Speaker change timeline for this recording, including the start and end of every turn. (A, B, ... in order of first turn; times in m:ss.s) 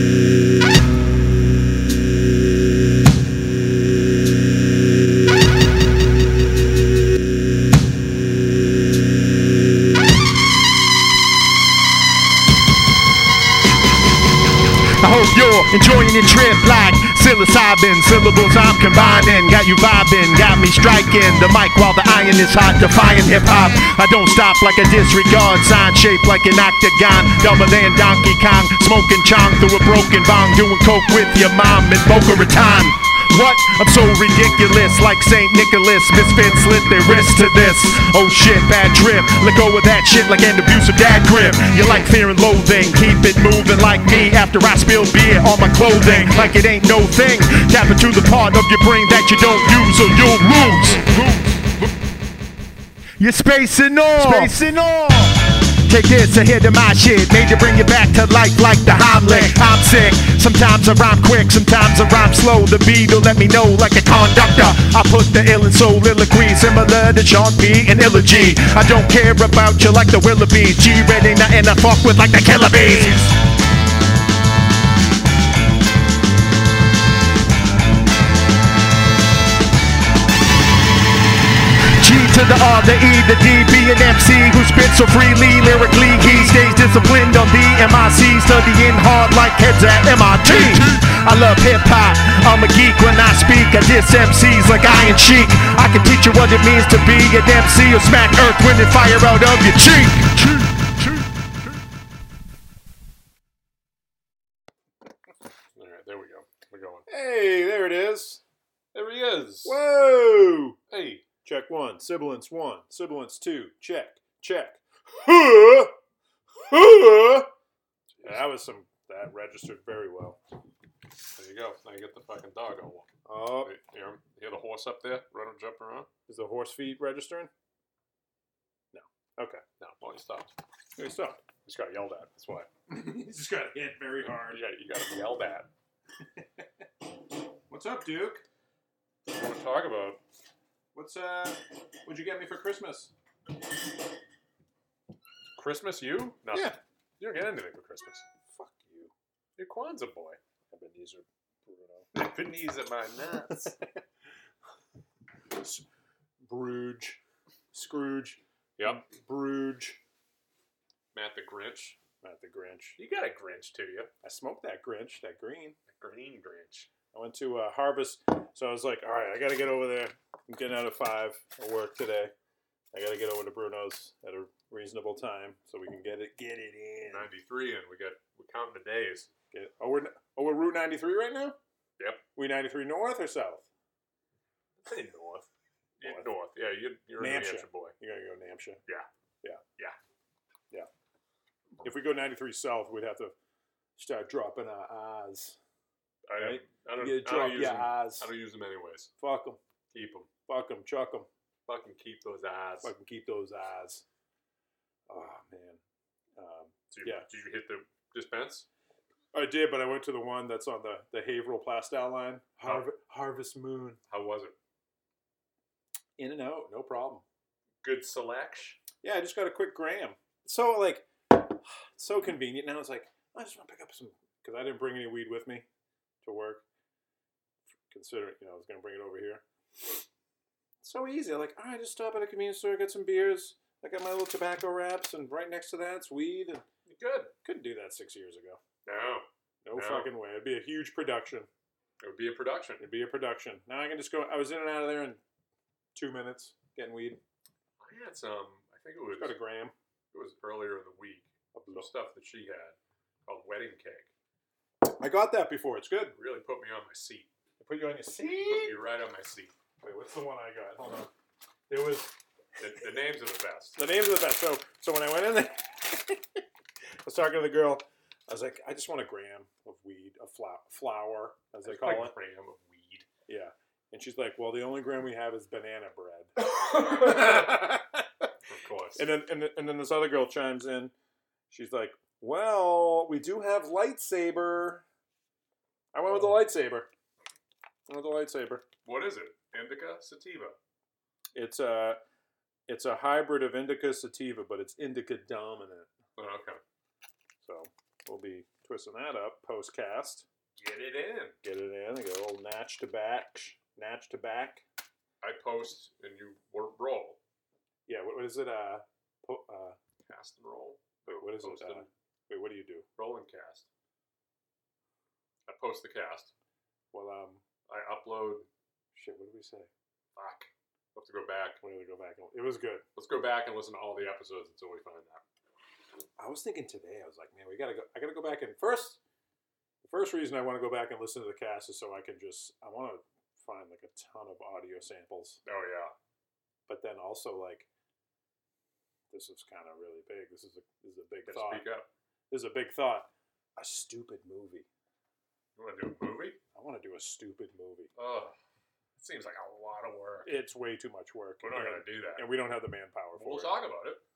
0:15.0-0:51.7 A
0:53.2-1:13.3 A
1:22.0-1:40.3 A
1:45.7-1:47.1 B
1:47.1-1:48.4 C
1:48.9-1:49.8 B
1:49.6-1:50.8 C
1:50.9-1:51.2 B
1:51.4-1:55.9 C
1:56.7-1:57.5 C
1:58.2-1:58.4 B
1:58.2-2:00.4 C
2:01.4-2:06.1 B
2:03.2-2:03.7 C
2:06.3-2:07.5 C
2:08.9-2:09.6 C
2:09.8-2:10.5 B
2:11.0-2:11.4 C
2:11.6-2:12.7 B
2:12.9-2:14.6 C
2:14.2-2:15.7 B
2:17.7-2:18.4 C
2:19.3-2:20.2 B
2:20.9-2:23.1 C
2:25.6-2:28.2 B
2:26.5-2:26.8 C
2:28.5-2:29.1 C
2:29.6-2:30.4 B
2:30.7-2:32.1 C
2:32.1-2:33.7 B
2:33.5-2:33.9 C
2:35.5-2:35.8 C
2:36.4-2:37.2 C
2:37.7-2:40.0 C
2:38.8-2:39.0 B
2:41.1-2:42.0 B
2:42.2-2:43.0 C
2:43.0-2:44.1 B
2:44.2-2:45.8 C
2:45.9-2:46.9 B
2:47.1-2:52.3 C
2:52.9-2:57.3 C
2:57.1-2:59.3 B
2:59.5-3:01.6 C
3:02.4-3:03.7 C
3:04.8-3:05.5 B
3:06.0-3:07.9 B
3:07.2-3:08.8 C
3:11.8-3:13.3 C
3:14.0-3:15.6 C
3:16.3-3:19.1 B
3:16.4-3:18.3 C
3:19.2-3:19.6 C
3:19.9-3:20.3 B
3:20.5-3:21.3 C
3:21.7-3:22.9 B
3:22.8-3:24.0 C
3:25.1-3:25.8 C
3:26.4-3:27.3 C
3:26.9-3:28.7 B
3:29.3-3:34.0 C
3:34.1-3:34.5 B
3:36.2-3:37.2 C
3:37.8-3:38.8 B
3:39.0-3:45.6 C
3:46.2-3:46.6 C
3:47.9-3:50.0 C
3:50.8-3:56.6 C
3:56.8-3:57.3 B
3:57.4-3:58.6 C
3:58.8-4:00.1 B
3:59.6-4:01.5 C
4:02.0-4:02.8 B
4:02.8-4:05.2 C
4:05.9-4:07.2 C
4:07.8-4:09.3 B
4:09.2-4:09.7 C
4:10.1-4:14.1 B
4:11.5-4:11.9 C
4:14.8-4:16.2 C
4:16.1-4:17.3 B
4:17.6-4:18.8 C
4:18.4-4:19.5 B
4:19.8-4:21.1 C
4:21.7-4:22.2 C
4:22.6-4:23.8 B
4:23.8-4:26.4 C
4:27.0-4:32.2 C
4:31.6-4:33.1 B
4:33.3-4:38.3 C
4:37.0-4:37.3 B
4:38.4-4:39.1 B
4:39.0-4:40.9 C
4:41.5-4:44.8 C
4:45.9-4:46.9 C
4:47.9-4:48.6 C
4:48.8-4:50.6 B
4:51.3-4:52.0 C
4:52.7-4:55.9 C
4:56.2-4:56.6 B
4:57.4-5:00.3 C
5:00.6-5:01.4 B
5:01.4-5:04.6 C
5:05.2-5:07.2 B
5:07.9-5:09.8 C
5:10.0-5:11.9 B
5:11.1-5:12.8 C
5:13.0-5:13.7 B
5:15.5-5:16.3 B
5:16.9-5:17.4 C
5:17.7-5:18.5 B
5:18.9-5:19.7 C
5:20.2-5:21.6 B
5:21.6-5:22.8 C
5:23.0-5:25.2 B
5:26.2-5:29.0 C
5:29.8-5:35.4 C
5:35.4-5:35.9 B
5:36.7-5:37.7 C
5:39.1-5:41.6 C
5:41.3-5:41.9 B
5:42.3-5:44.6 C
5:45.6-5:46.4 B
5:46.5-5:47.9 C
5:48.0-5:48.3 B
5:49.0-5:50.3 B
5:50.2-5:53.5 C
5:51.4-5:52.3 B
5:53.2-5:54.0 B